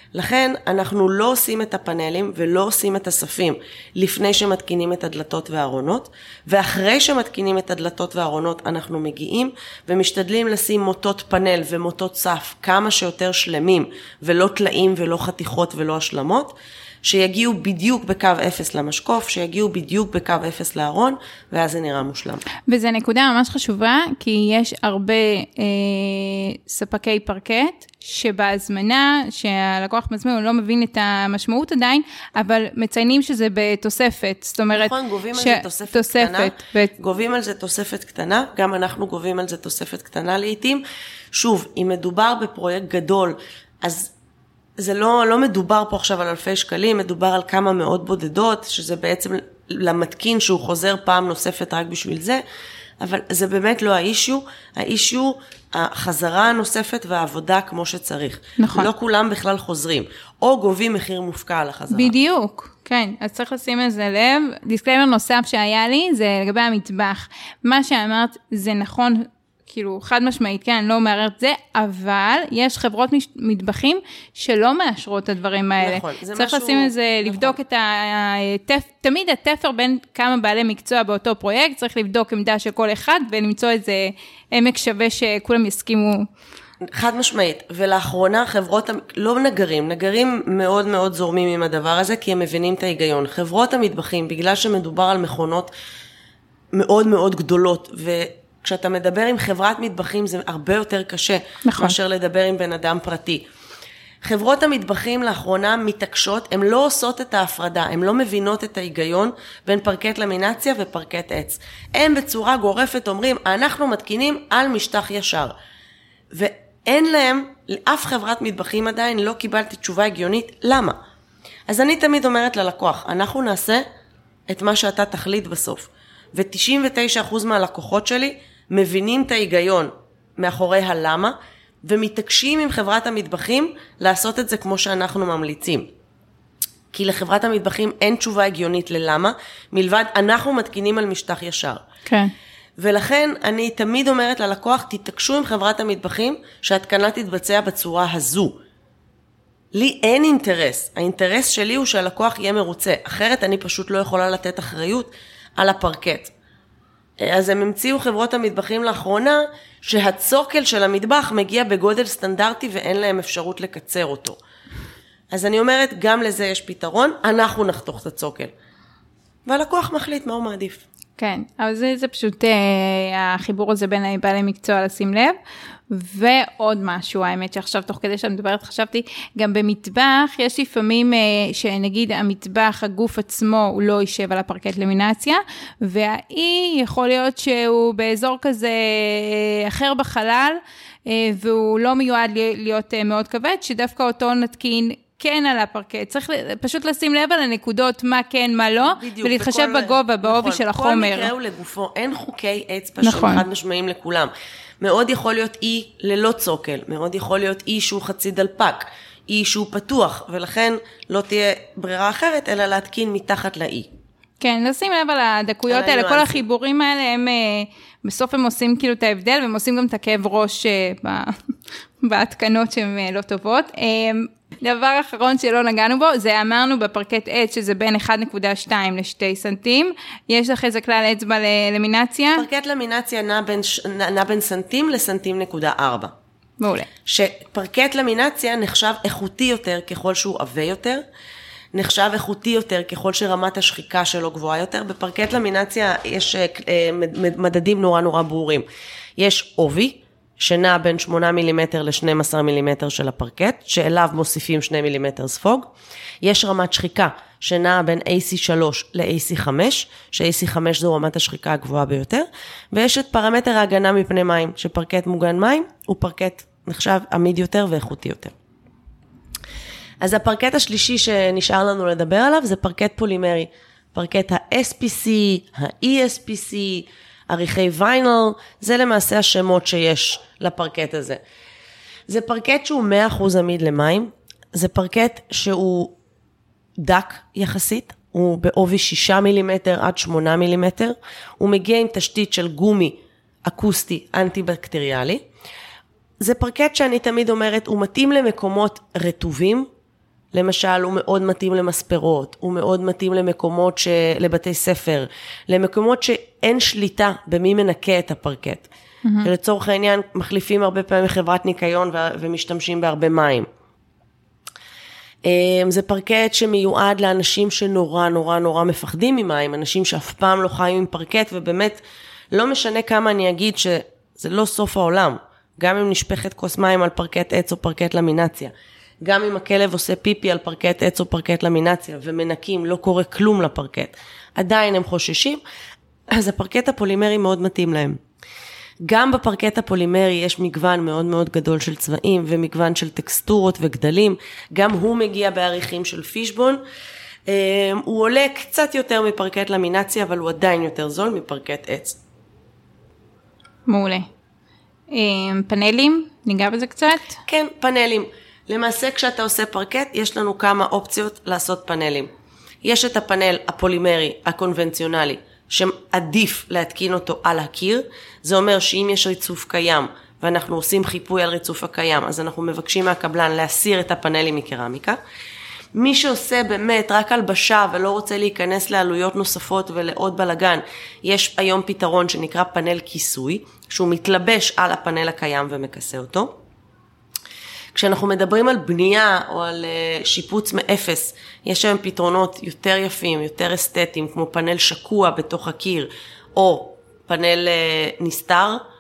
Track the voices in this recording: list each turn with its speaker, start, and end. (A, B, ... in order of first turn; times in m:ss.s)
0:00.2-0:22.4 A
0:22.7-0:36.9 B
0:34.7-0:40.8 A
0:41.3-0:44.1 A
0:44.8-0:52.4 A
0:53.0-1:02.1 A
0:58.6-0:58.9 B
1:01.9-1:26.3 B
1:15.8-1:17.6 A
1:26.9-1:35.7 A
1:36.7-1:43.4 A
1:41.6-1:42.0 B
1:44.2-1:55.5 A
1:56.3-2:01.0 A
2:01.7-2:03.8 A
2:04.5-2:15.9 A
2:16.9-2:21.8 A
2:22.1-2:22.3 B
2:22.8-2:28.6 A
2:29.7-2:36.3 A
2:37.2-2:44.4 A
2:45.3-2:48.5 A
2:49.5-2:50.8 A
2:51.2-2:55.4 B
2:55.9-3:21.3 B
3:18.8-3:33.9 A
3:23.0-3:23.4 B
3:34.4-3:41.4 B
3:35.7-3:36.4 A
3:42.0-3:52.5 B
3:52.4-3:56.1 A
3:56.6-3:56.9 B
3:57.1-4:01.0 A
4:01.7-4:08.6 A
4:09.2-4:15.7 A
4:16.2-4:28.3 A
4:30.0-4:41.2 A
4:42.1-4:46.0 A
4:46.8-4:55.2 A
4:56.2-4:59.7 A
5:00.3-5:08.7 A
5:09.0-5:09.3 B
5:09.2-5:13.5 A
5:15.2-5:21.8 A
5:22.3-5:28.5 A
5:29.0-5:35.4 A
5:36.1-5:38.0 A
5:38.8-5:46.6 A
5:47.3-5:52.0 A
5:53.7-5:54.1 B
5:54.9-5:57.2 B
5:57.2-6:02.1 A
6:02.6-6:15.0 A
6:15.8-6:26.4 A
6:27.8-6:38.6 A